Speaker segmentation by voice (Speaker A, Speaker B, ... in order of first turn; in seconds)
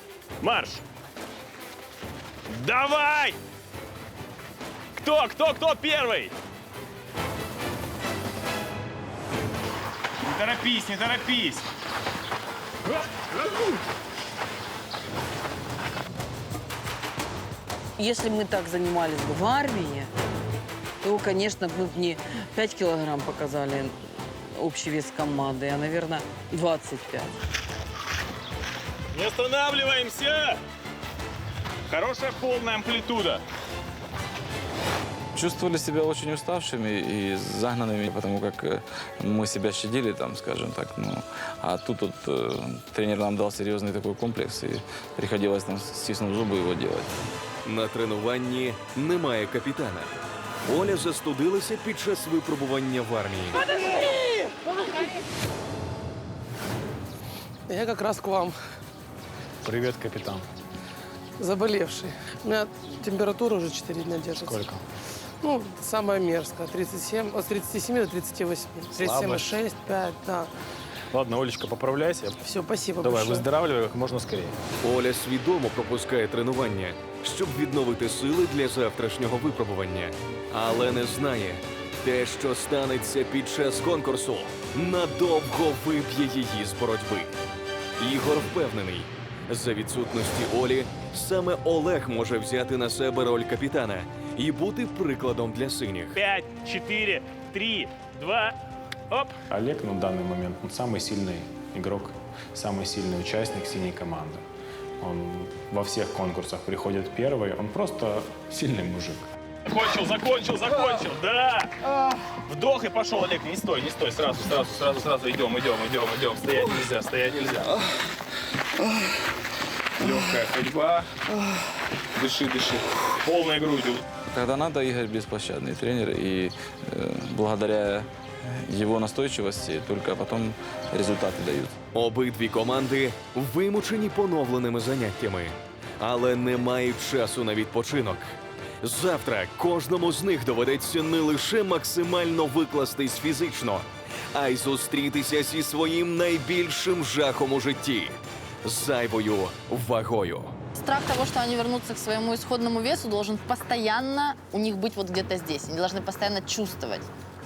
Speaker A: 0.4-0.8, 2.5-3.4, 5.0-6.3, 10.3-11.6, 29.1-30.6, 31.9-33.4, 59.6-60.5, 64.5-64.8, 68.9-69.5, 71.1-72.4, 73.0-74.6, 96.2-98.5, 99.1-104.4, 105.0-111.7, 112.5-117.7, 120.0-121.1, 122.2-124.1
Speaker B: 18.0-20.1, 21.0-24.0, 24.5-27.3
Speaker C: 35.4-47.1, 124.3-131.8
Speaker D: 47.6-53.6, 74.8-87.3, 88.0-96.2, 131.9-150.5
Speaker E: 53.8-54.3, 57.7-58.5, 61.4-64.7, 65.4-70.5, 72.4-73.5
Speaker F: 150.8-157.1